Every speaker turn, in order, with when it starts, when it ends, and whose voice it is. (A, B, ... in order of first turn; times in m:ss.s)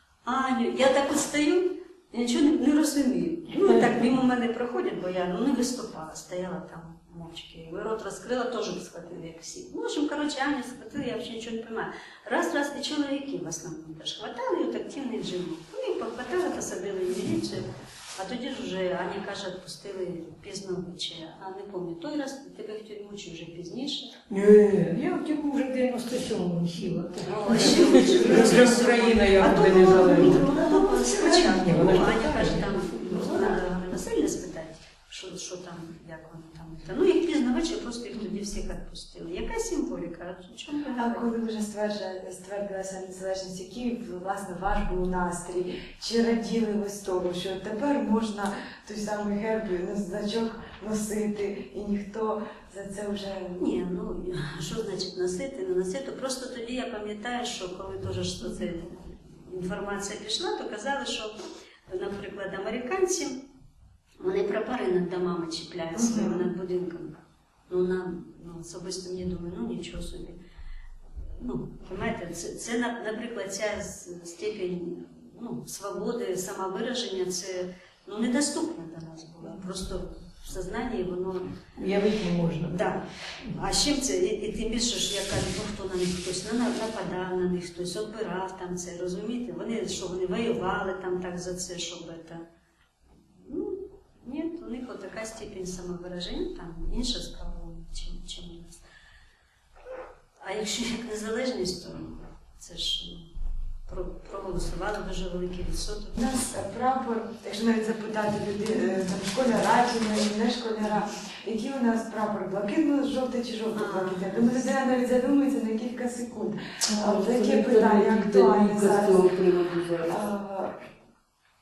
0:00.2-0:24.2 A
0:24.3-0:33.6 B
0:27.2-0:28.7 C
0:27.3-0:41.3 A
0:40.9-0:53.6 C
0:53.6-1:01.3 A
1:01.9-1:03.4 A
1:04.2-1:07.2 A
1:05.9-1:06.5 C
1:07.7-1:10.4 A
1:11.4-1:21.6 A
1:21.8-1:22.9 B
1:22.7-1:32.4 A
1:33.2-1:38.8 A
1:40.4-1:43.3 A
1:43.9-1:46.4 A
1:46.2-1:59.3 C
1:53.7-1:54.5 A
1:56.8-2:00.2 B
2:00.1-2:00.7 C